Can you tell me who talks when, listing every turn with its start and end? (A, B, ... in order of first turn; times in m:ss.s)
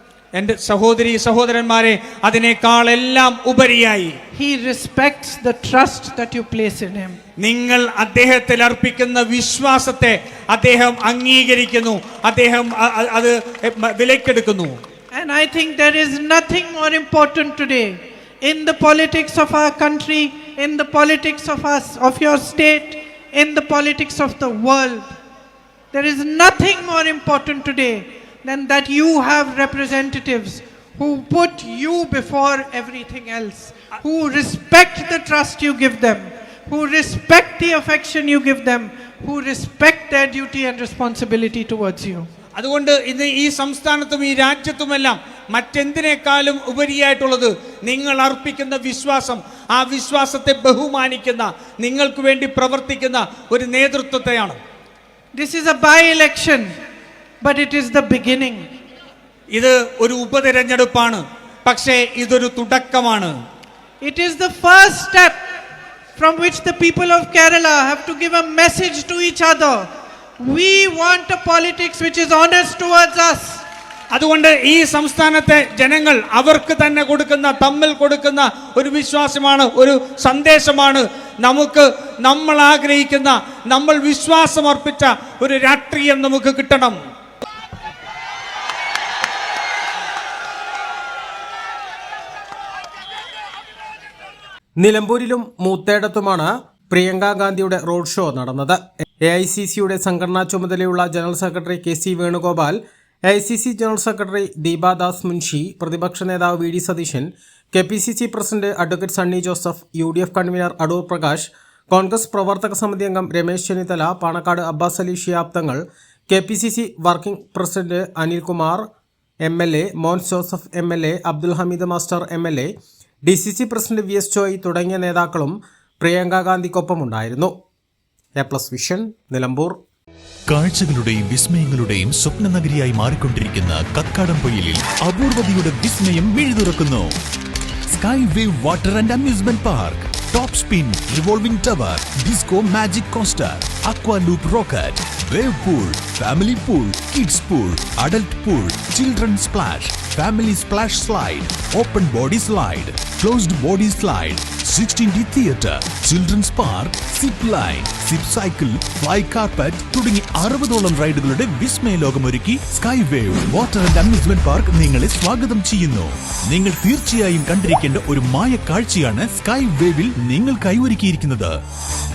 0:00.3-0:04.2 A
0:04.3-0:07.2 B
0:07.4-0:14.8 A
0:15.1-0:25.1 B
0:25.9-0:42.3 B
0:42.6-0:54.6 A
0:55.3-0:56.7 B
0:57.4-0:58.7 B
0:59.5-1:03.3 A
1:04.0-1:05.4 B
1:06.2-1:09.9 B
1:10.4-1:13.6 B
1:14.2-1:27.0 A
1:34.8-1:58.8 C
1:59.4-2:02.7 C
2:03.3-2:07.5 C
2:08.4-2:09.8 C
2:10.5-2:17.1 D
2:17.9-2:51.6 D